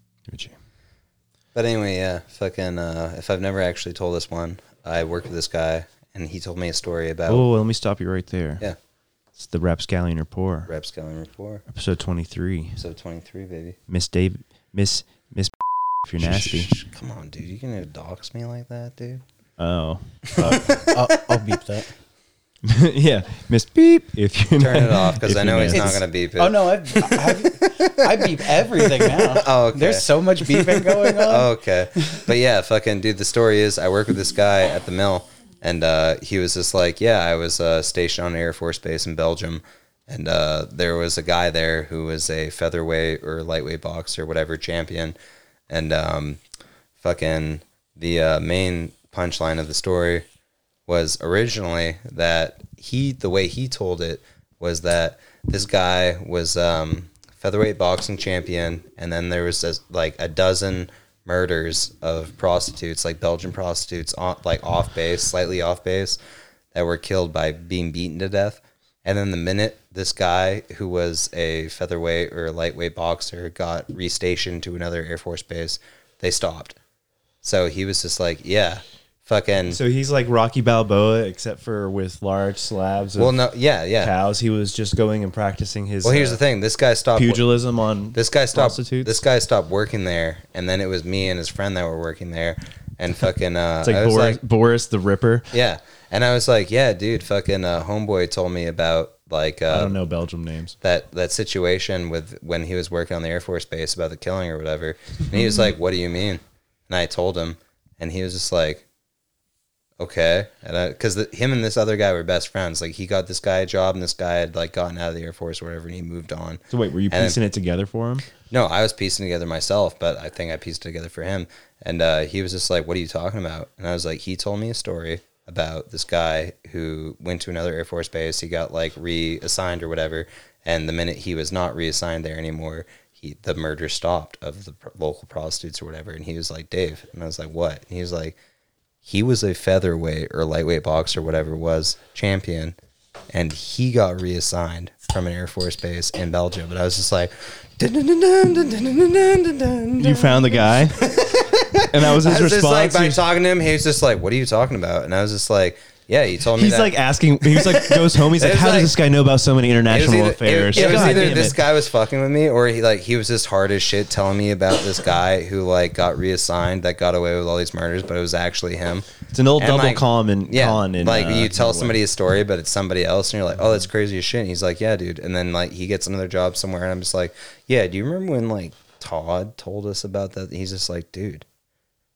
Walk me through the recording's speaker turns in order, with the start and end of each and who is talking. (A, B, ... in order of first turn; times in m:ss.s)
0:00.3-0:00.6 A
0:01.5-0:07.5 B
0:07.3-0:08.6 A
0:09.4-0:10.7 A
0:10.7-0:11.6 B
0:11.7-0:12.8 A
0:12.8-0:13.8 B
0:13.9-0:16.7 A
0:16.2-0:19.2 B
0:19.6-0:20.8 A
0:20.3-0:21.0 B
0:20.4-0:21.9 C
0:22.6-0:26.0 A
0:24.6-0:45.2 B
0:26.4-0:32.3 C
0:45.7-0:46.4 B
0:47.0-0:50.2 B
0:50.9-1:06.2 B
1:06.7-1:16.8 B
1:17.4-1:19.8 B
1:19.7-1:23.4 A
1:23.2-1:24.1 B
1:24.0-1:26.4 A
1:26.0-1:27.4 B
1:27.1-1:29.1 A
1:28.1-1:34.4 B
1:33.8-1:35.5 A
1:35.5-1:40.0 B
1:39.7-1:40.8 A
1:40.8-1:48.8 B
1:50.0-1:57.4 B
1:56.7-1:58.2 A
1:58.5-2:18.4 B
2:19.0-2:22.8 B
2:23.3-2:38.9 B
2:30.0-2:31.1 A
2:31.8-2:33.2 A
2:36.5-2:41.6 A
2:39.9-3:01.4 B
2:40.7-2:41.4 C
2:49.3-2:52.0 A